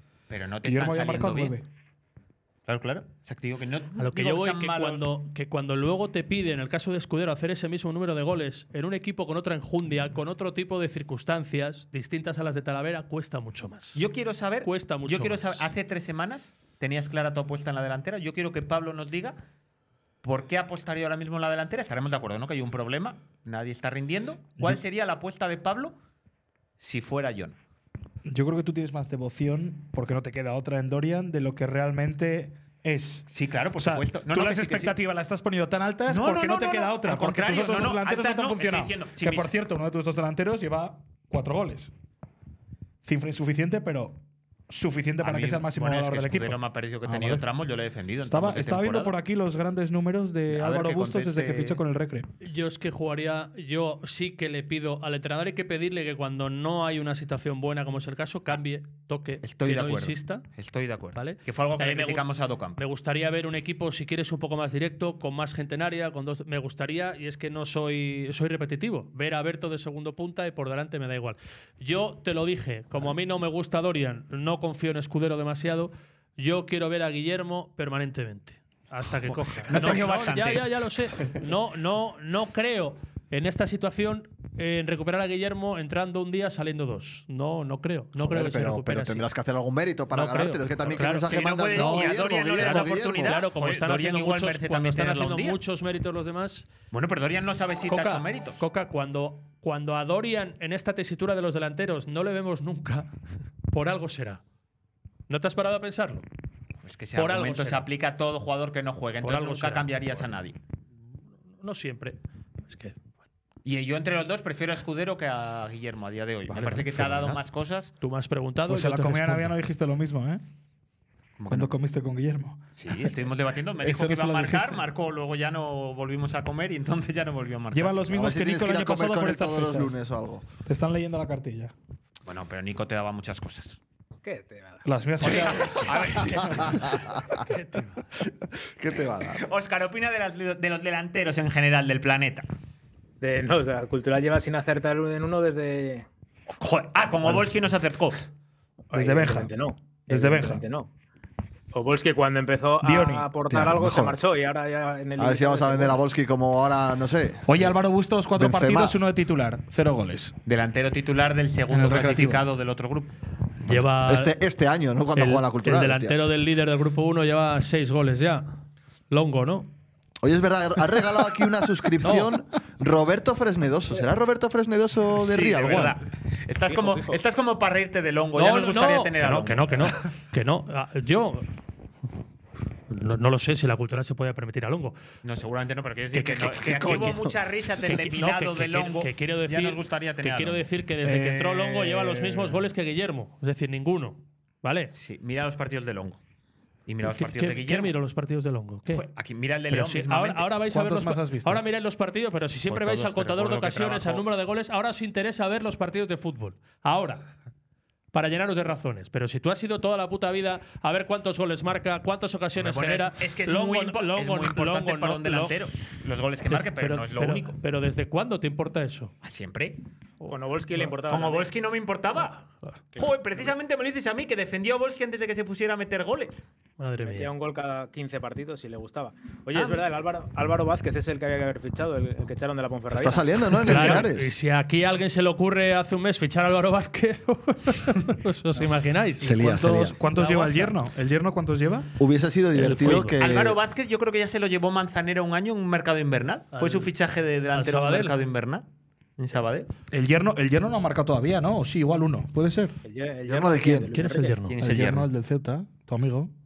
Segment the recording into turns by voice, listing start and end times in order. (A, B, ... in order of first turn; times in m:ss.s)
0:00.3-0:01.6 A
0:00.6-0:01.6 B
0:02.7-0:05.1 A
0:04.0-0:14.0 C
0:14.0-0:19.4 A
0:14.6-0:15.7 C
0:20.2-0:26.0 A
0:26.8-0:27.6 A
0:28.3-0:33.2 B
0:33.3-0:35.0 A
0:33.8-0:41.9 B
0:36.1-0:39.5 A
0:43.0-0:44.2 B
0:44.7-0:47.4 B
0:45.2-0:49.1 A
0:48.2-0:52.3 B
0:50.5-0:51.8 A
0:52.4-1:00.5 C
0:59.4-1:02.8 A
1:01.2-1:29.3 C
1:19.7-1:20.7 A
1:28.2-1:33.4 D
1:30.1-1:36.7 C
1:31.0-1:35.6 A
1:36.9-1:38.6 A
1:37.9-1:43.1 C
1:43.7-1:44.4 C
1:45.3-1:46.2 C
1:46.8-1:50.6 A
1:47.2-1:47.9 C
1:49.2-1:49.9 C
1:51.6-1:53.1 C
1:53.6-1:57.9 A
1:56.5-1:57.4 B
1:58.0-1:59.6 C
1:58.7-2:00.4 B
2:01.4-2:01.7 A
2:01.5-2:02.6 B
2:02.8-2:08.0 A
2:03.8-2:04.8 B
2:07.7-2:10.0 B
2:08.1-2:10.5 D
2:10.7-2:11.7 B
2:12.2-2:13.8 A
2:14.2-2:14.8 E
2:14.8-2:16.2 B
2:15.2-2:16.8 A
2:16.1-2:17.3 D
2:17.5-2:18.1 C
2:18.6-2:19.4 D
2:19.4-2:22.5 A
2:23.2-2:26.1 E
2:26.6-2:28.2 A
2:28.9-2:30.9 E
2:28.9-2:29.5 B
2:30.1-2:30.6 B
2:31.7-2:36.0 E
2:32.8-2:33.3 B
2:33.5-2:34.2 D
2:35.2-2:37.7 D
2:37.5-2:40.3 B
2:38.4-2:39.0 D
2:40.5-2:43.1 A
2:41.7-2:42.5 B
2:43.6-2:44.3 C
2:43.7-2:46.2 D
2:45.2-2:48.4 C
2:49.1-2:49.7 C
2:50.2-2:56.0 D
2:55.2-2:59.9 A
2:56.7-2:57.2 E
2:58.4-3:01.4 C
3:02.9-3:05.0 C
3:05.2-3:10.7 A
3:06.2-3:07.1 C
3:07.0-3:07.3 D
3:07.9-3:14.9 C
3:11.0-3:12.6 B
3:14.9-3:16.2 A
3:16.9-3:18.0 A
3:17.1-3:19.0 C
3:18.9-3:20.5 A
3:19.7-3:27.3 C
3:20.7-3:21.6 B
3:22.7-3:24.2 A
3:28.1-3:35.6 C
3:32.6-3:37.6 A
3:36.5-3:39.1 C
3:39.2-3:39.8 A
3:40.2-3:40.9 C
3:40.3-3:41.5 E
3:41.1-3:42.4 A
3:42.5-3:42.9 C
3:43.0-3:43.5 E
3:43.0-3:46.4 A
3:46.8-3:47.3 C
3:47.0-3:54.0 E
3:49.5-3:49.8 A
3:52.9-3:54.3 D
3:53.6-4:00.8 C
3:59.2-4:00.0 D
3:59.3-4:01.9 B
4:02.0-4:03.6 D
4:02.6-4:03.2 C
4:03.2-4:08.6 A
4:06.5-4:06.9 C
4:07.5-4:08.1 C
4:09.2-4:09.7 A
4:09.9-4:12.8 B
4:12.8-4:14.4 E
4:13.3-4:13.9 D
4:13.9-4:14.6 C
4:14.5-4:15.1 A
4:14.6-4:16.3 B